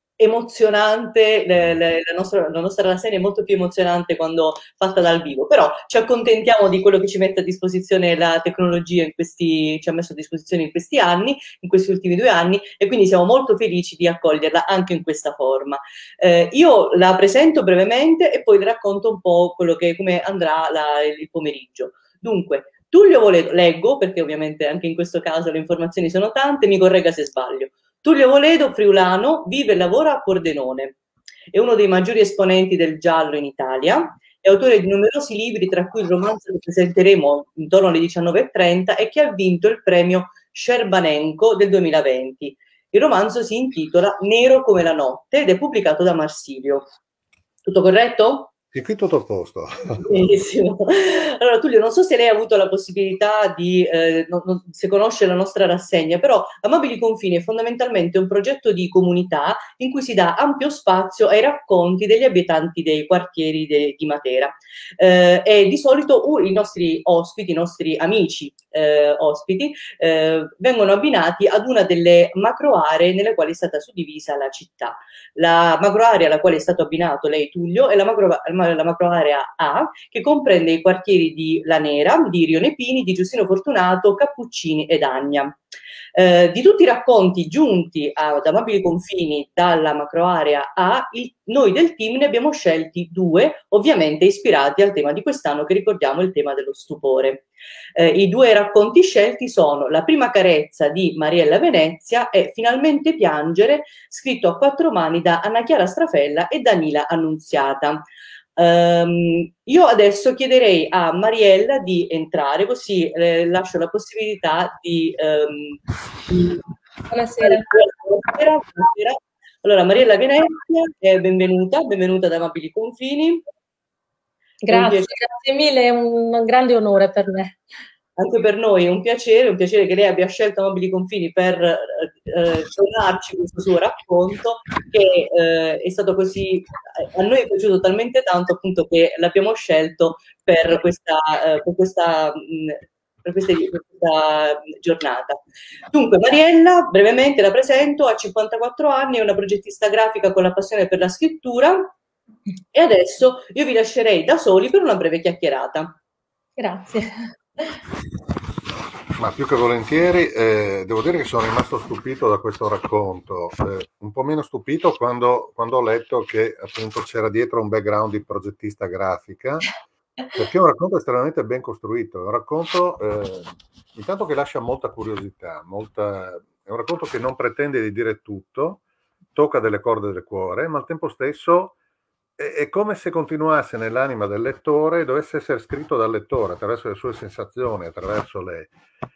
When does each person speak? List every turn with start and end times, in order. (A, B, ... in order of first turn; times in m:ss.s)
0:00.2-0:30.9 A
0:31.5-0:46.8 A
0:47.6-0:48.5 A
0:48.7-0:50.1 B
0:50.0-1:25.6 A
1:26.1-1:37.4 A
1:38.0-1:48.0 A
1:48.6-1:55.8 A
1:57.1-1:57.8 C
1:57.4-2:03.4 A
2:04.6-2:07.6 C
2:04.7-2:05.1 A
2:08.2-2:25.4 A
2:25.9-2:31.9 A
2:32.7-2:36.0 A
2:36.6-2:37.7 C
2:39.2-2:49.7 B
2:50.3-2:58.8 B
2:59.3-3:01.8 B
3:02.4-3:08.7 B